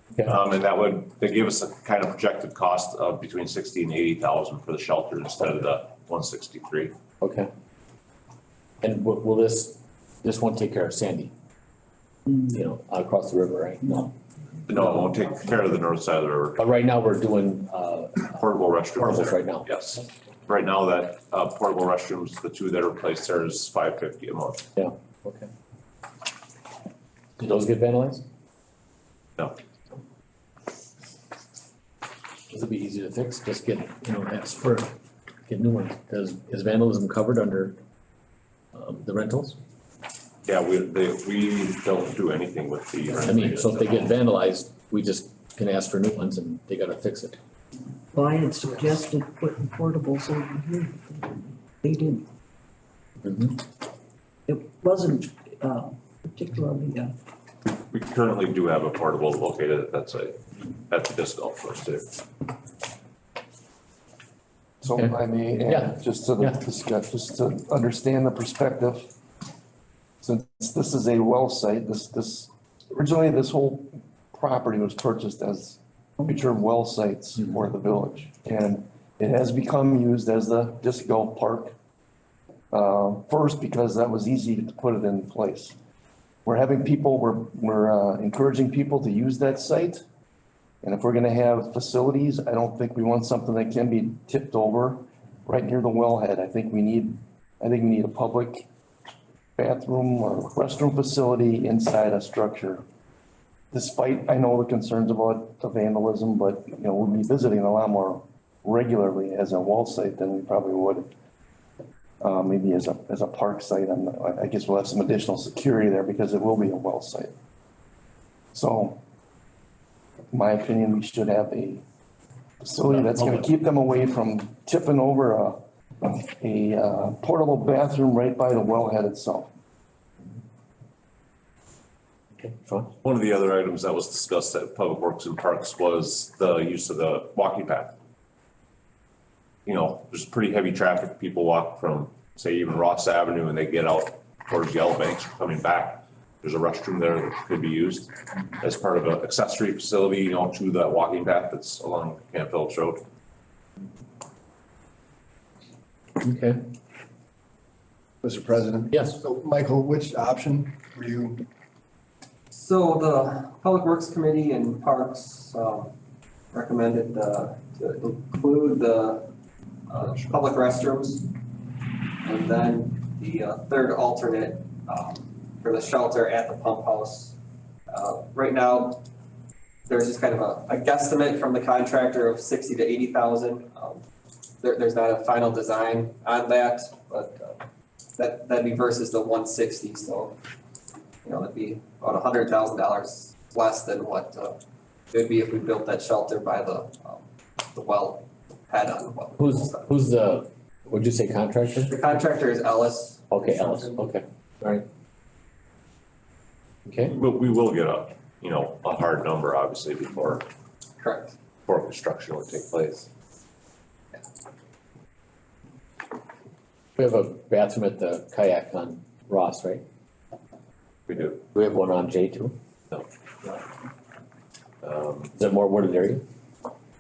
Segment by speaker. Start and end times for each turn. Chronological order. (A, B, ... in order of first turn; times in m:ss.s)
0:00.2-0:06.9 A
0:07.2-0:07.5 B
0:08.8-0:11.3 B
0:12.4-0:14.1 B
0:14.7-0:16.6 A
0:16.6-0:19.9 B
0:18.3-0:24.7 A
0:24.8-0:25.5 B
0:27.4-0:28.2 B
0:32.5-0:34.9 B
0:35.5-0:37.8 B
0:38.8-0:39.6 B
0:40.5-0:44.1 A
0:43.2-0:47.4 B
0:48.1-0:52.2 C
0:53.2-0:53.6 B
0:54.5-0:57.1 C
0:57.9-1:00.4 A
1:00.9-1:02.2 A
1:04.8-1:09.1 D
1:04.9-1:06.6 B
1:10.2-1:21.7 D
1:22.7-1:25.8 D
1:26.4-1:30.0 D
1:30.8-1:38.7 D
1:39.6-1:42.8 D
1:43.7-1:51.1 D
1:52.2-1:57.3 D
1:58.5-1:59.0 D
2:00.3-2:01.8 D
2:02.6-2:09.5 D
2:02.9-2:03.5 B
2:12.4-2:12.9 B
2:13.0-2:17.9 A
2:19.7-2:33.0 A
2:36.2-2:36.6 B
2:38.2-2:41.4 E
2:38.9-2:39.2 B
2:42.5-2:45.9 F
2:46.5-2:49.3 F
2:49.9-2:51.3 F
2:52.2-2:57.4 F
2:57.9-2:59.0 F
2:59.9-3:04.0 F
3:04.6-3:07.6 F
3:08.2-3:10.4 F
3:11.2-3:14.6 F
3:15.1-3:19.9 F
3:19.4-3:21.9 B
3:21.7-3:24.0 F
3:23.3-3:24.8 B
3:26.9-3:27.2 B
3:27.1-3:30.5 A
3:31.0-3:31.3 F
3:31.7-3:33.1 A
3:37.0-3:39.8 B
3:41.1-3:41.4 A
3:41.4-3:42.6 B
3:44.9-3:45.2 A
3:45.3-3:46.2 B